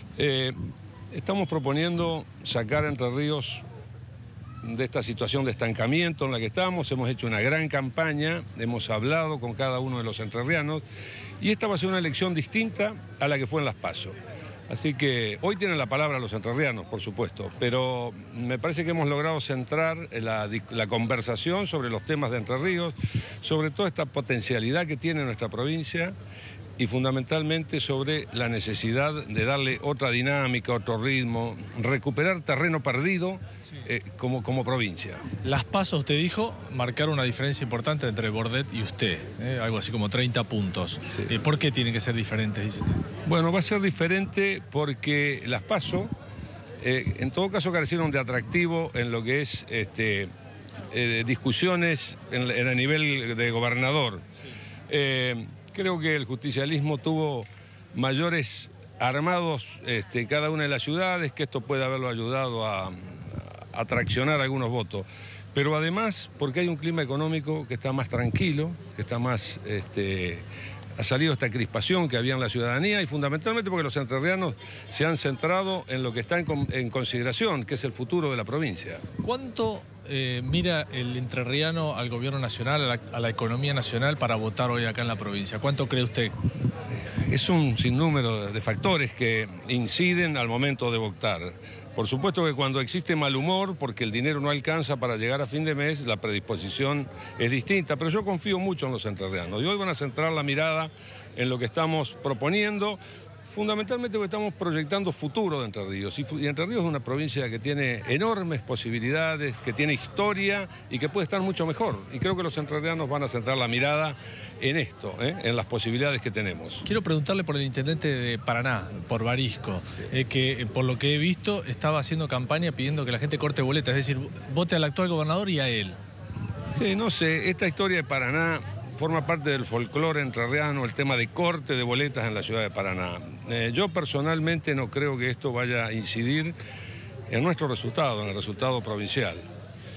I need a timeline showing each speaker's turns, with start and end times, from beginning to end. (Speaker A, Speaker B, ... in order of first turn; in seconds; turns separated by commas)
Speaker A: 0.2-0.6, Speaker A: 1.1-3.6, Speaker A: 4.6-10.8, Speaker A: 11.4-14.2, Speaker A: 14.7-26.1, Speaker A: 26.8-35.2, Speaker B: 35.4-43.0, Speaker A: 43.2-46.1, Speaker A: 46.8-50.3, Speaker A: 50.9-54.3, Speaker A: 54.9-70.5, Speaker A: 71.0-79.0, Speaker B: 79.2-86.3, Speaker A: 87.0-116.9, Speaker B: 116.8-126.0, Speaker A: 126.7-136.5, Speaker A: 137.3-139.4